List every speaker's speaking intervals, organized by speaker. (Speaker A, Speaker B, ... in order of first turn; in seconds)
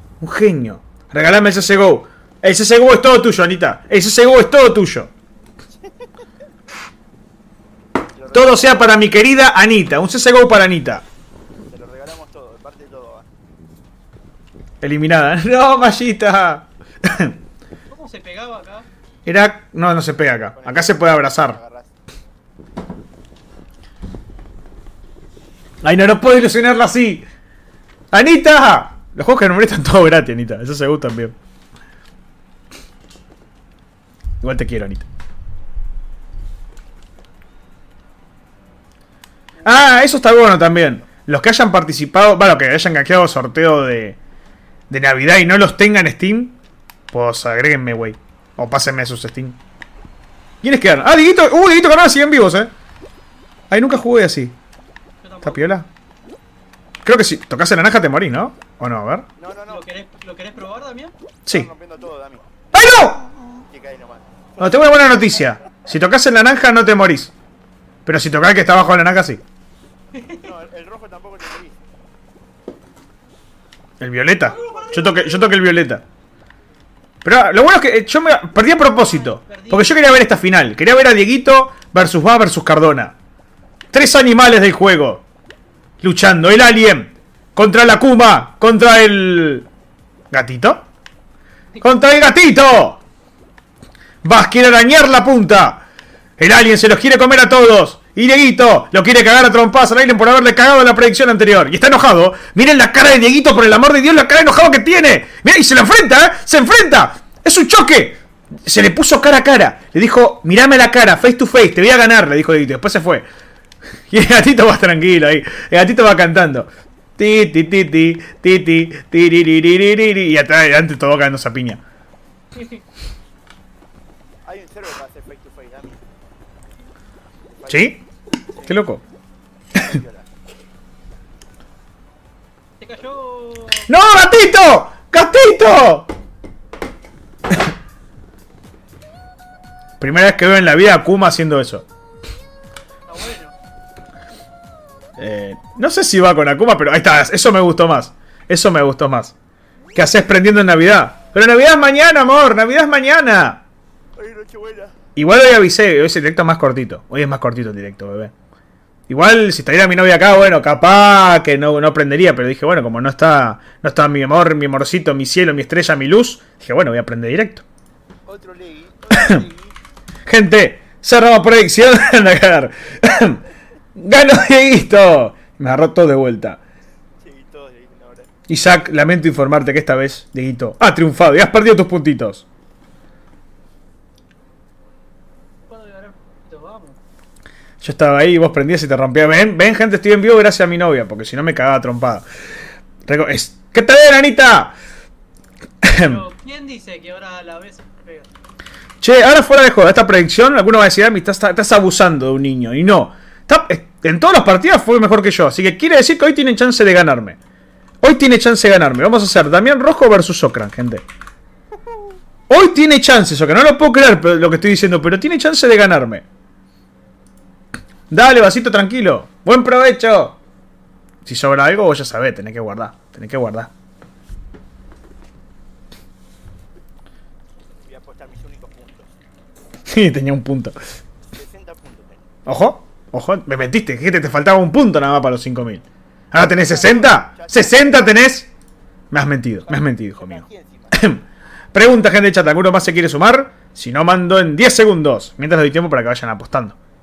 Speaker A: 0.2-5.1, 8.3-11.0, 14.8-17.3, 19.2-21.6, 25.8-27.2, 28.1-31.3, 34.4-35.1, 39.6-44.2, 44.9-46.5, 47.1-49.5, 50.6-52.7, 53.7-54.5, 55.4-55.9, 57.0-59.2, 62.7-63.2, 64.6-67.3, 68.0-69.4, 74.0-76.0, 77.2-83.1, 83.9-85.2, 86.0-89.7, 90.3-90.8, 91.8-93.0, 94.2-95.8, 96.4-113.2, 114.1-121.8, 127.7-128.0, 128.7-129.0, 133.9-136.1, 140.0-141.8, 145.2-149.3, 149.9-153.6, 155.2-158.3, 159.1-167.6, 169.1-169.4, 170.3-173.4, 173.9-176.6, 178.5-182.4, 187.8-192.2, 193.1-194.7, 195.8-196.2, 199.0-207.4, 208.0-211.0, 212.5-216.2, 218.1-220.3, 221.2-223.7, 229.9-230.8, 232.4-238.5, 239.1-241.2, 241.7-246.8
Speaker B: 5.8-6.1, 8.1-8.9, 11.7-13.3, 20.5-21.9, 59.4-59.9, 61.5-62.5, 63.7-65.3, 70.3-71.8, 124.5-126.0, 127.5-128.0, 128.5-128.8, 129.7-130.3, 154.2-154.9, 168.3-169.7, 177.2-178.3, 227.8-229.1, 231.3-232.3, 236.4-237.8, 239.7-241.1
Speaker C: 17.9-18.9, 55.2-55.6, 59.7-61.1, 70.2-70.4, 74.5-75.5, 79.4-80.1, 132.8-133.9, 143.1-143.5, 185.7-187.0, 196.0-198.3